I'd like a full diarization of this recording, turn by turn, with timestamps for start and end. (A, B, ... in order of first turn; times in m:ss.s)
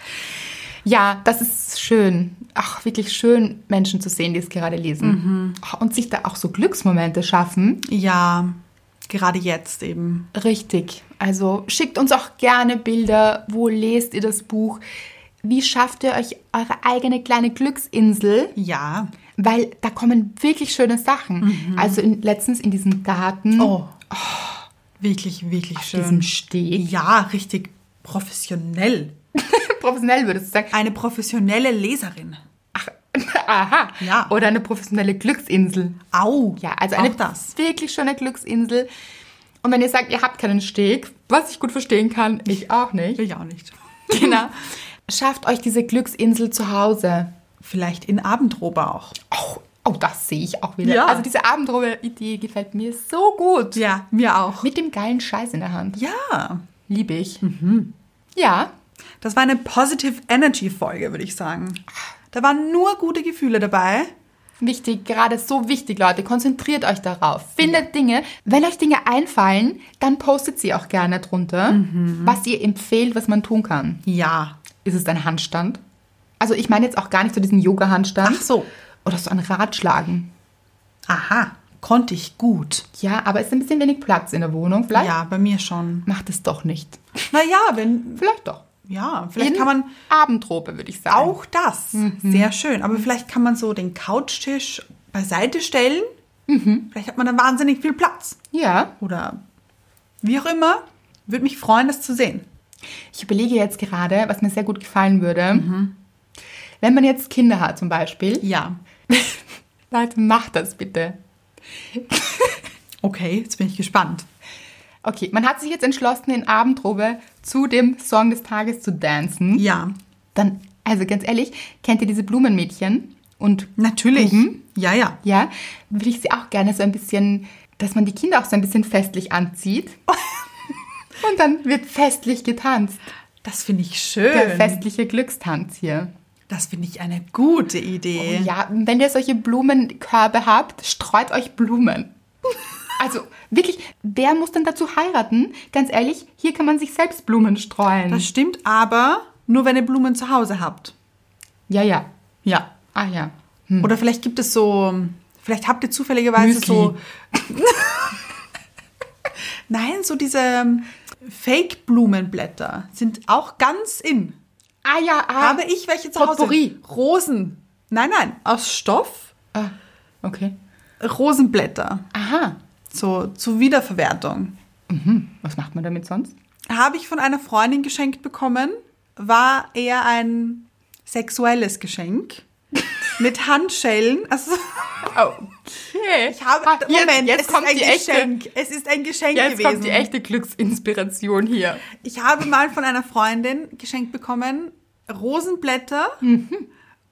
0:00.8-0:07.8 A
0:05.0-0:05.6 B
0:07.8-0:10.3 B
0:10.3-0:14.8 A
0:15.4-0:18.6 A
0:18.6-0:19.1 B
0:19.4-0:24.7 A
0:21.4-0:22.0 B
0:23.6-0:23.9 B
0:25.0-0:29.2 B
0:25.8-0:26.9 A
0:29.4-0:30.7 A
0:30.7-0:32.4 B
0:32.7-0:36.0 A
0:34.0-0:34.3 B
0:36.1-0:37.6 B
0:36.6-0:38.9 A
0:39.6-0:43.2 A
0:43.2-0:44.5 B
0:44.1-0:47.3 A
0:47.6-0:49.2 B
0:49.3-0:53.8 A
0:50.8-0:51.3 B
0:53.8-0:54.7 B
0:54.6-0:56.0 A
0:56.0-0:56.6 B
0:56.9-0:57.4 A
0:57.4-0:57.9 B
0:58.4-0:58.7 A
0:59.2-1:04.1 B
1:04.6-1:14.0 A
1:11.7-1:12.4 B
1:14.1-1:14.6 B
1:14.8-1:15.8 A
1:16.4-1:18.5 A
1:18.2-1:18.7 B
1:19.0-1:20.3 A
1:21.1-1:22.9 B
1:22.9-1:25.1 A
1:24.9-1:26.1 B
1:26.1-1:27.3 A
1:27.3-1:28.2 B
1:28.2-1:28.6 A
1:28.8-1:29.9 B
1:29.4-1:31.4 A
1:31.1-1:36.1 B
1:31.9-1:32.5 A
1:36.5-1:36.9 A
1:36.9-1:38.4 B
1:38.5-1:38.9 A
1:39.0-1:39.4 B
1:40.2-1:42.5 B
1:43.1-1:45.7 A
1:45.5-1:45.9 B
1:46.8-1:48.5 A
1:48.4-1:48.8 B
1:49.1-1:51.2 A
1:51.9-1:52.6 A
1:53.0-1:54.3 B
1:55.0-1:59.7 A
1:59.6-2:00.0 B
2:00.4-2:04.6 A
2:03.8-2:05.2 B
2:05.2-2:10.0 A
2:11.2-2:13.1 A
2:13.4-2:14.8 B
2:14.3-2:16.1 A
2:16.5-2:18.5 B
2:18.2-2:22.1 A
2:23.0-2:28.3 A
2:28.1-2:30.9 B
2:31.7-2:32.1 A
2:32.4-2:32.7 B
2:32.9-2:33.9 A
2:33.8-2:38.2 B
2:36.4-2:37.0 A
2:39.7-2:44.4 B
2:44.8-2:45.6 A
2:45.4-2:49.3 B
2:46.2-2:46.8 A
2:49.5-2:50.6 A
2:51.0-2:52.1 B
2:52.1-2:52.6 A
2:52.9-2:54.5 B
2:54.9-2:56.3 A
2:56.7-3:02.4 B
3:03.2-3:05.0 B
3:05.1-3:08.3 A
3:06.3-3:10.1 B
3:09.3-3:11.9 A
3:12.0-3:16.2 B
3:16.2-3:16.7 A